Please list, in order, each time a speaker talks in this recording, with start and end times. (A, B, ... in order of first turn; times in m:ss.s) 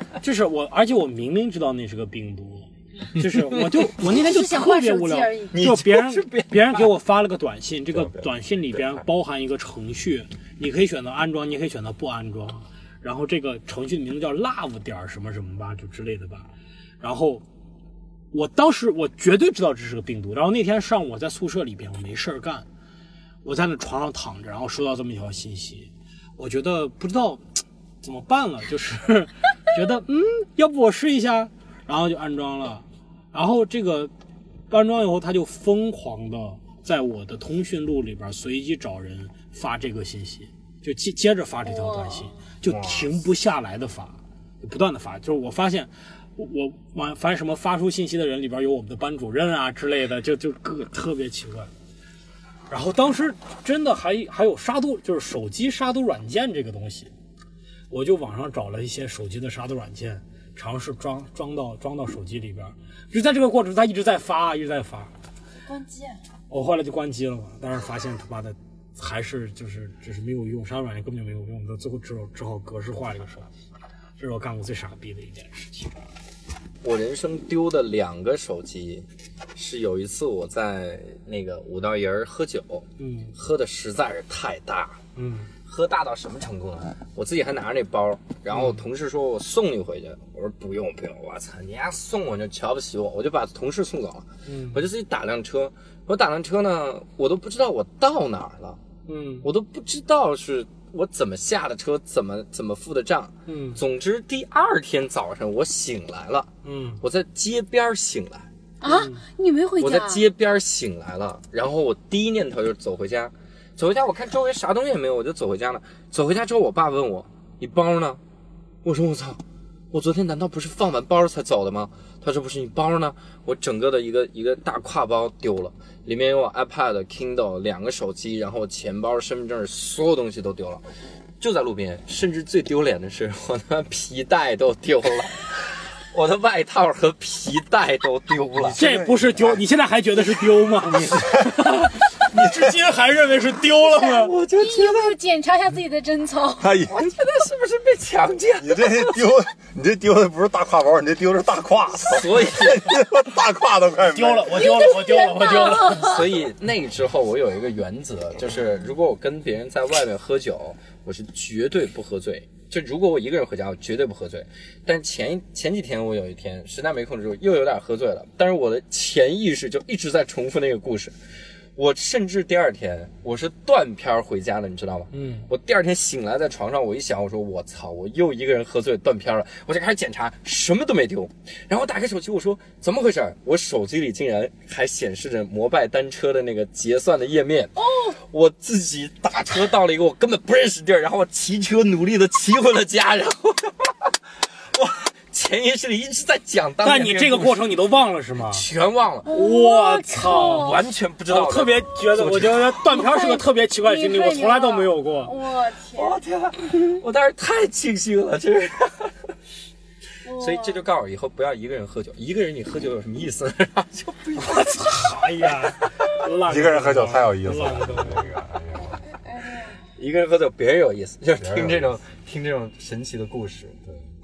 0:00.2-0:16.5 A
0:03.2-0:03.6 B
0:04.0-0:05.6 C
0:05.5-0:06.9 B
0:07.9-0:08.3 D
0:17.0-0:17.4 A
0:18.3-0:22.7 A
0:23.4-0:27.4 A
0:28.0-0:34.1 A
0:34.7-0:51.7 A
0:41.6-0:42.4 C
0:42.6-0:43.2 B
0:52.7-0:57.1 A
0:57.9-1:05.1 A
1:05.7-1:06.2 C
1:06.5-1:13.5 A
1:14.2-1:16.0 A
1:16.8-1:25.0 B
1:23.0-1:23.3 A
1:25.2-1:25.5 A
1:25.7-1:38.8 B
1:28.5-1:28.8 A
1:34.5-1:34.8 A
1:39.1-1:39.5 A
1:39.4-1:46.5 B
1:43.5-1:43.8 A
1:46.6-1:47.0 A
1:47.0-1:48.5 B
1:48.8-1:50.3 C
1:48.8-1:49.2 A
1:49.8-1:58.2 B
1:58.8-1:59.4 B
1:59.9-2:10.8 B
2:11.4-2:18.8 B
2:18.6-2:19.6 D
2:18.8-2:24.3 A
2:20.9-2:21.2 B
2:23.8-2:25.2 B
2:24.6-2:26.8 C
2:26.6-2:27.1 D
2:26.9-2:29.2 B
2:28.6-2:34.8 D
2:32.1-2:33.1 B
2:34.1-2:36.2 A
2:34.6-2:36.2 C
2:35.5-2:51.2 B
2:51.8-3:14.1 B
2:55.1-2:55.5 A
3:07.8-3:08.2 C
3:14.7-3:17.7 B
3:16.8-3:18.7 A
3:18.4-3:19.4 B
3:19.2-3:20.8 C
3:19.3-3:25.3 A
3:20.2-3:22.8 B
3:22.8-3:26.2 C
3:25.9-3:29.2 B
3:30.2-3:30.8 C
3:30.3-3:35.2 B
3:34.5-3:38.3 A
3:36.4-3:39.0 D
3:39.3-3:39.8 C
3:40.0-3:43.8 B
3:41.4-3:42.0 D